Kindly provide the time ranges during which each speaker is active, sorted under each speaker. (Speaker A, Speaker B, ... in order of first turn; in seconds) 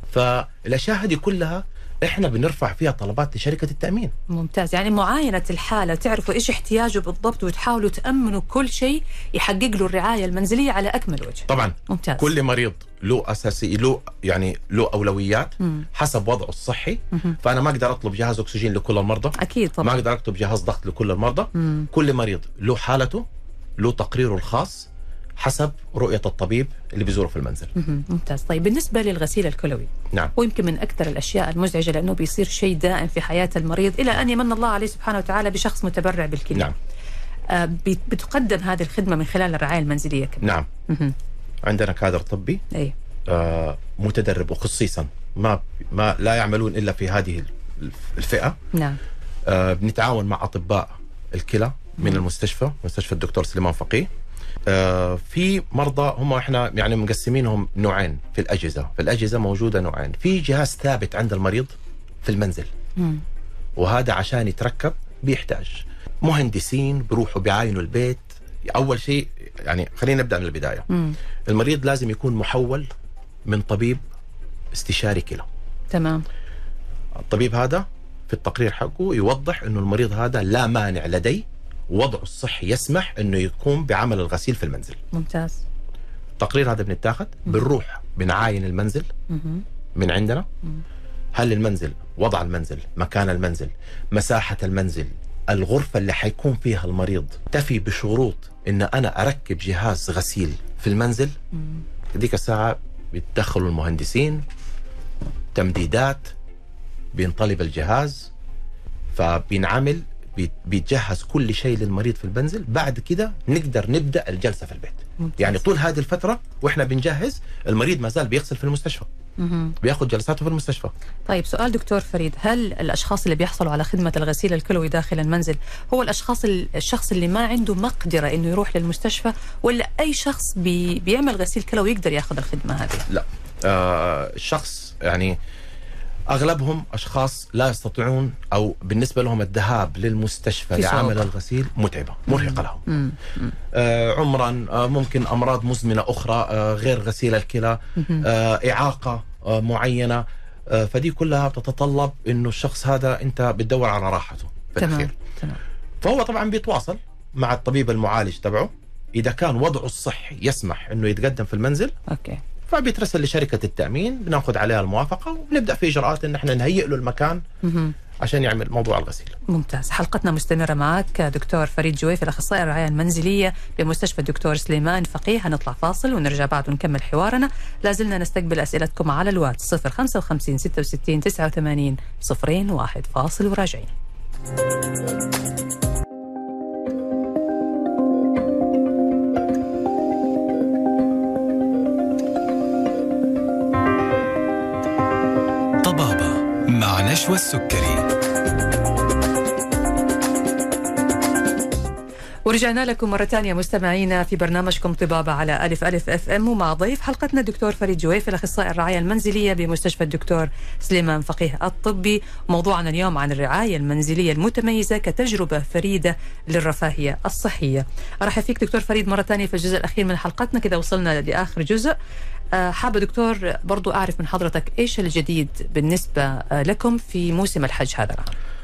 Speaker A: 0.1-4.1, 11.5-23.2, 23.8-27.7, 40.4-40.7, 41.6-42.6, 43.3-48.6, 49.5-54.1, 54.7-62.7, 63.8-70.9, 71.5-72.9, 73.5-74.0, 74.7-75.5, 77.2-85.0, 86.4-89.1, 90.0-90.5, 91.3-101.3, 102.1-104.5, 105.5-106.3, 107.1-108.3, 109.1-119.1, 119.8-120.9, 133.1-135.4, 136.3-142.8, 143.7-155.1, 156.0-161.9, 162.7-167.4, 168.2-169.4
Speaker B: 4.3-12.3, 19.4-20.0, 21.6-21.9, 27.8-36.7, 37.5-41.1, 48.7-49.0, 63.0-63.2, 70.9-71.2, 75.9-76.2, 85.1-85.6, 89.3-89.6, 115.2-115.6, 119.4-119.8, 121.3-133.1, 140.8-141.2, 142.3-143.5, 148.0-148.3, 154.8-155.6, 162.1-162.4, 167.6-167.9, 169.5-183.9, 202.4-221.9, 222.5-228.3
Speaker C: 195.8-198.1